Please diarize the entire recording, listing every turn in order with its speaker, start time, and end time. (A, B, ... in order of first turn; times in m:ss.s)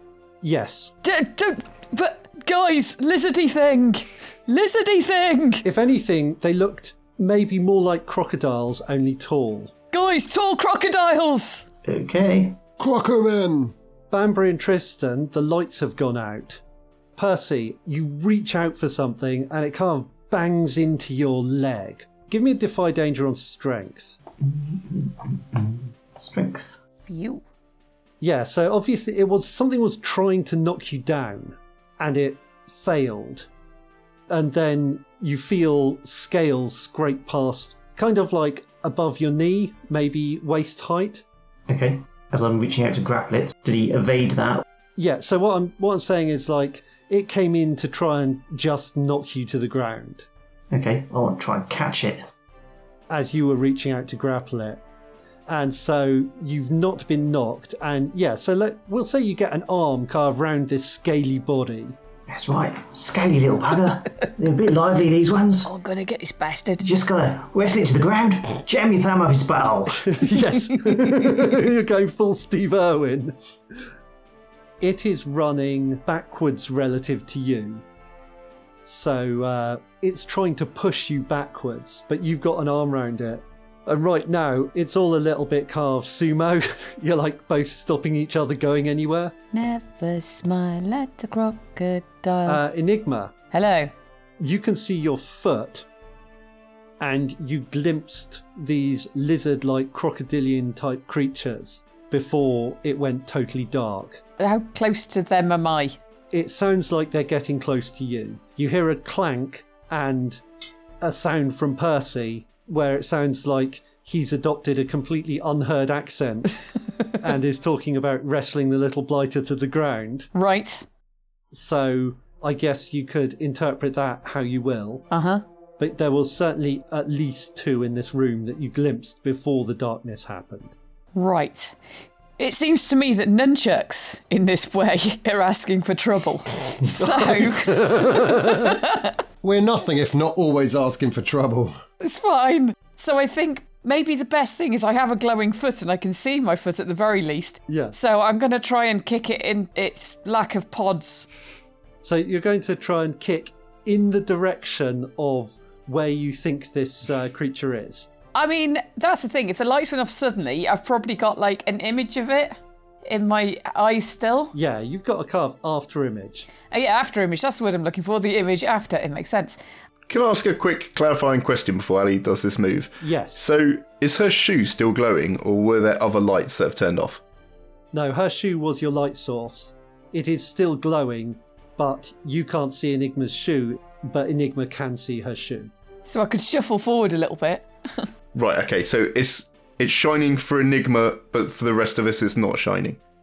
0:00.4-0:00.9 A
0:01.0-0:05.6 B
0:05.6-0:09.7 A
0:09.9-0:11.6 B
0:11.8-0:12.6 C
0:12.8-0:13.7 D
0:14.1-0:16.6 A
0:17.2-0:24.2 A
0:24.4-0:26.8 C
0:27.1-0:27.4 B
0:28.2-0:33.5 A
0:34.3-0:41.2 A
0:41.7-0:44.6 C
0:45.0-0:50.3 A
0:50.7-0:52.2 C
0:53.1-0:54.8 A
0:55.5-1:02.0 A
1:02.3-1:05.7 C
1:05.6-1:06.8 B
1:06.8-1:10.2 C
1:10.0-1:13.4 A
1:14.8-1:17.8 A
1:18.8-1:29.3 A
1:29.5-1:32.6 B
1:32.5-1:33.3 A
1:33.5-1:33.9 B
1:34.4-1:35.8 A
1:37.0-1:44.2 A
1:44.4-1:46.0 B
1:46.3-1:50.4 A
1:51.0-1:56.6 A
1:57.2-2:00.3 A
2:00.3-2:00.8 B
2:01.5-2:05.1 A
2:05.1-2:05.4 B
2:05.8-2:10.8 A
2:11.1-2:11.8 B
2:12.4-2:19.1 B
2:17.3-2:18.6 A
2:19.4-2:21.7 D
2:22.0-2:31.3 B
2:27.7-2:27.9 A
2:32.0-2:38.1 A
2:38.3-2:44.5 B
2:44.5-2:46.5 A
2:46.7-2:49.6 B
2:50.1-2:57.2 E
2:53.0-2:53.4 A
2:57.9-3:05.7 A
3:06.0-3:08.1 B
3:08.3-3:13.0 E